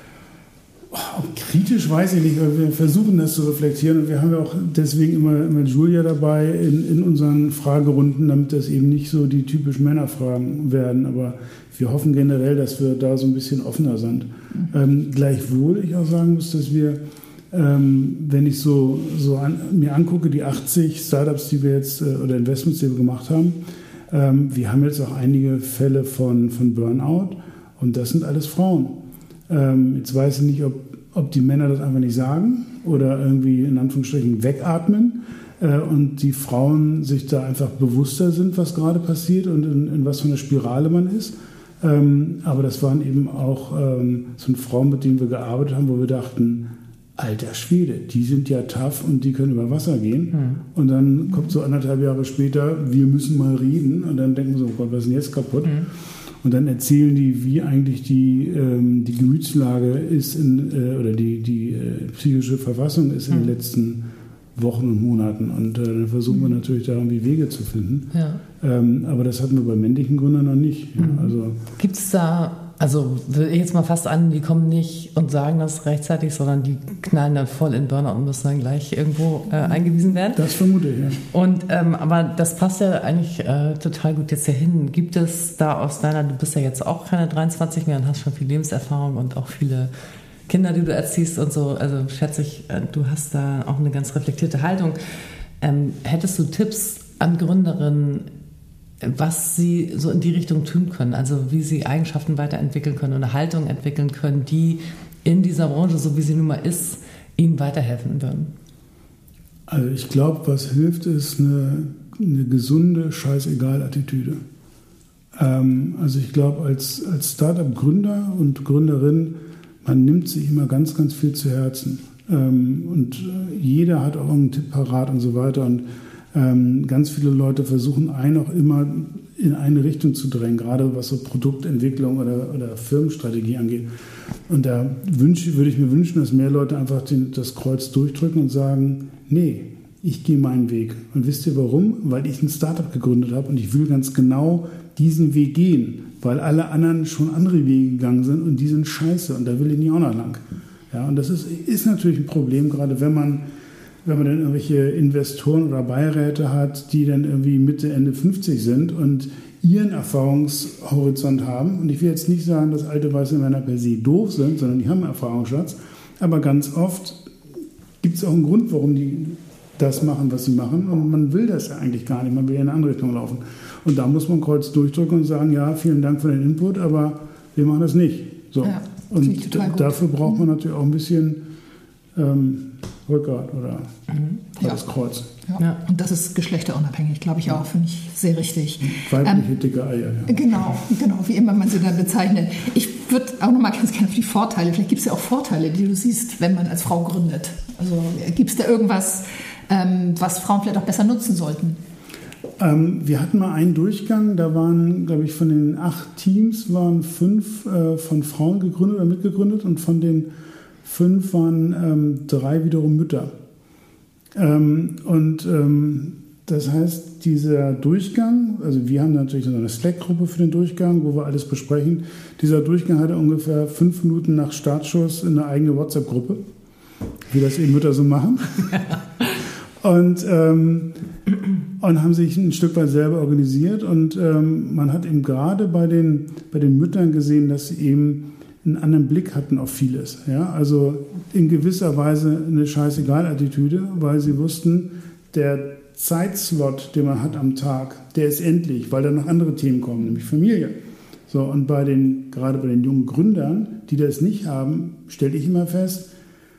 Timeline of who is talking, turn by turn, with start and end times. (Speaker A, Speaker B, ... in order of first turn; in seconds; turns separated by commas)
Speaker A: 0.9-17.0, Speaker A: 17.5-55.9, Speaker B: 50.3-50.6, Speaker A: 56.4-64.0, Speaker A: 64.5-71.6, Speaker B: 68.1-68.4, Speaker B: 71.0-80.4, Speaker A: 80.3-81.2, Speaker B: 81.3-89.9, Speaker B: 90.5-95.0, Speaker B: 95.6-98.3, Speaker B: 99.0-108.5, Speaker A: 109.7-114.4, Speaker A: 115.3-133.9, Speaker A: 134.5-153.4, Speaker A: 154.0-167.3, Speaker A: 168.0-181.4, Speaker C: 178.6-180.1, Speaker A: 182.1-183.9, Speaker C: 184.6-184.8, Speaker A: 184.6-185.3, Speaker C: 185.5-189.4, Speaker A: 188.8-190.4, Speaker C: 190.3-201.8, Speaker A: 202.6-210.3, Speaker A: 210.8-213.3, Speaker A: 214.3-226.4, Speaker A: 227.3-228.9, Speaker A: 229.8-230.9, Speaker A: 231.8-250.7, Speaker A: 251.3-256.1